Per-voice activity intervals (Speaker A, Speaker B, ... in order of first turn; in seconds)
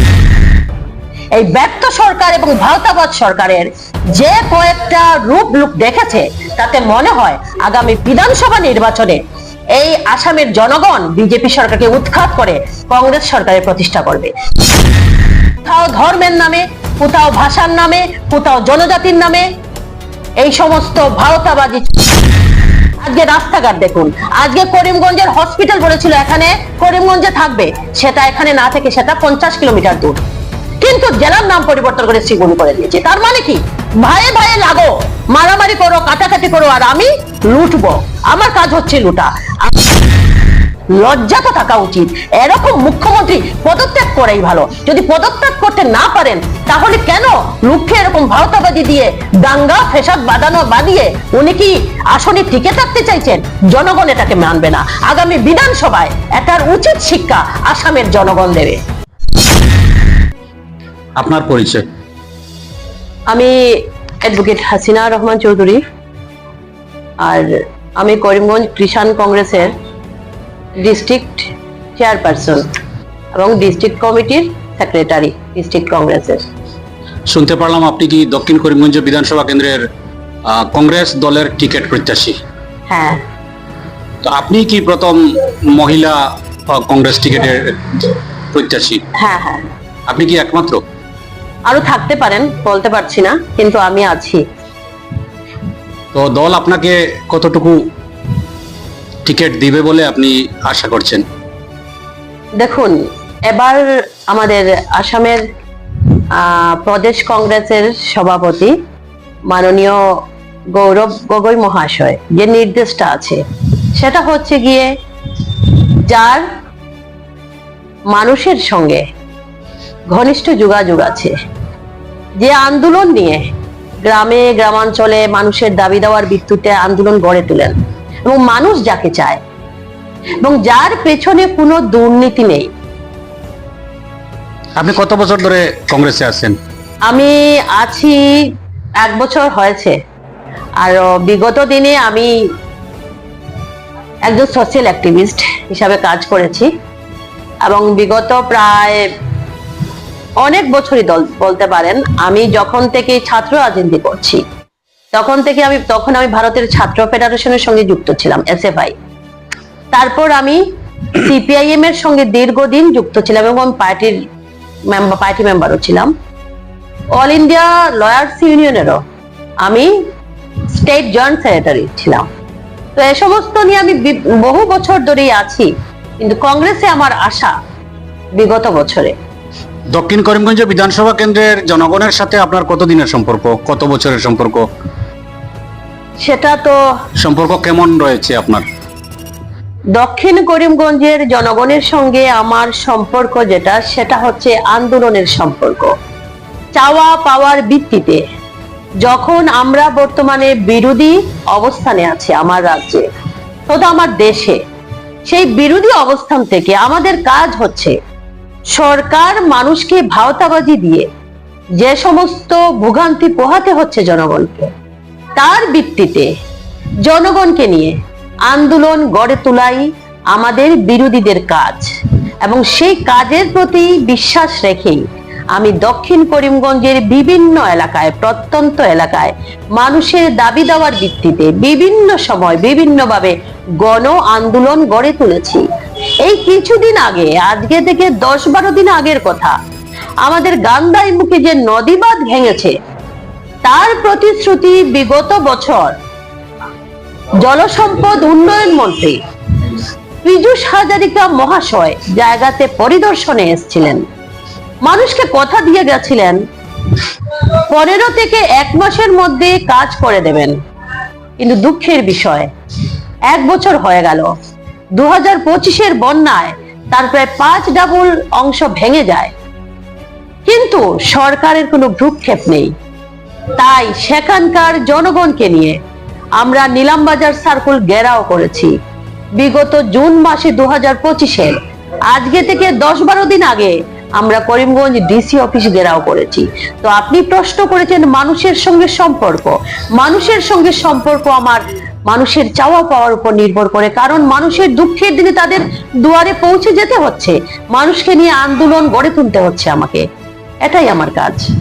Speaker A: 1.3-9.2, 9.7-14.3, 15.6-19.5, 20.4-21.9, 23.0-30.2, 30.8-39.8, 40.9-58.8, 63.3-65.8, 67.2-69.7, 70.8-72.7, 73.3-76.4, 82.9-83.2, 89.2-89.7, 91.7-94.4, 102.6-105.4, 106.3-108.8, 109.5-110.0, 110.8-113.4, 114.0-114.9, 115.4-116.4, 118.1-119.0, 120.1-121.3, 122.4-123.5, 124.0-129.4, 130.4-132.7, 137.1-140.0, 140.8-142.3, 144.2-146.7, 147.6-149.1, 150.4-154.4, 155.1-158.9, 159.9-160.6, 161.1-164.2, 164.9-166.1, 167.2-169.0, 169.6-169.9, 170.7-172.3, 172.9-177.6, 178.4-179.2, 186.2-186.8, 189.9-195.9, 196.8-198.2, 199.0-203.1, 203.7-204.6, 205.3-207.9, 208.7-211.1, 211.8-214.7, 215.4-216.3, 217.0-217.9, 218.5-221.9, 222.4-235.6, 236.2-239.6, 240.2-242.7, 243.6-245.9, 247.4-254.0, 254.8-256.4, 256.9-260.6, 261.4-262.5, 263.3-264.3, 265.0-269.3, 270.5-272.7, 273.6-275.8, 276.4-278.7, 279.4-281.6, 282.1-300.1, 300.6-301.5
Speaker B: 61.2-61.8, 77.3-79.8, 80.5-82.4, 84.2-85.2, 85.7-86.2, 86.7-89.0, 90.1-90.8, 96.1-97.8, 99.2-101.2, 134.8-136.6, 179.9-184.7, 187.2-188.7